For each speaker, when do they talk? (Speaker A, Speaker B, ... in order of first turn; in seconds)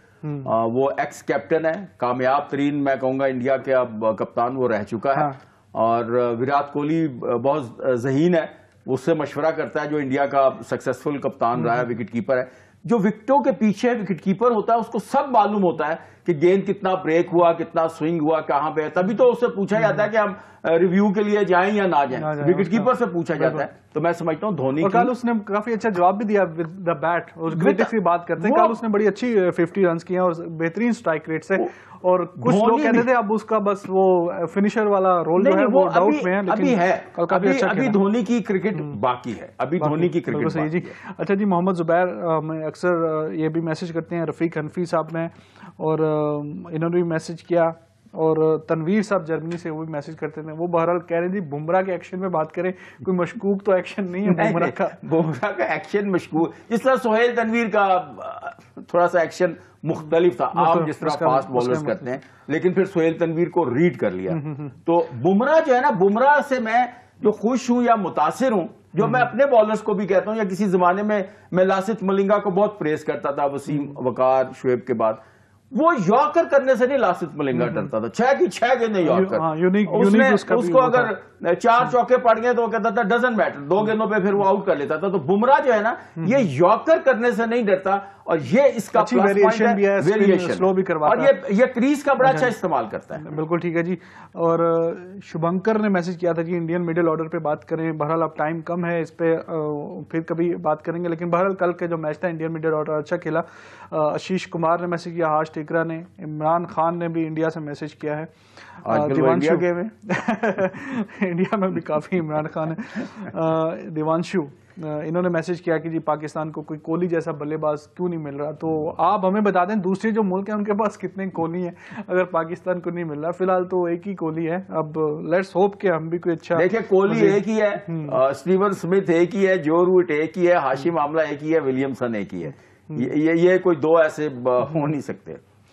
Speaker A: 0.2-0.5, 19.8-20.1, 22.1-23.7, 24.8-38.0, 39.8-55.0, 60.5-62.1, 64.3-64.8, 69.0-69.3, 73.7-74.0, 77.5-77.9, 79.0-81.1, 86.2-86.5, 89.0-91.3, 92.2-92.5, 93.2-108.3, 108.9-128.2
Speaker B: 0.4-25.1, 27.5-28.8, 32.4-33.1, 35.4-41.0, 54.3-75.2, 75.7-93.3, 108.8-109.9, 126.5-135.4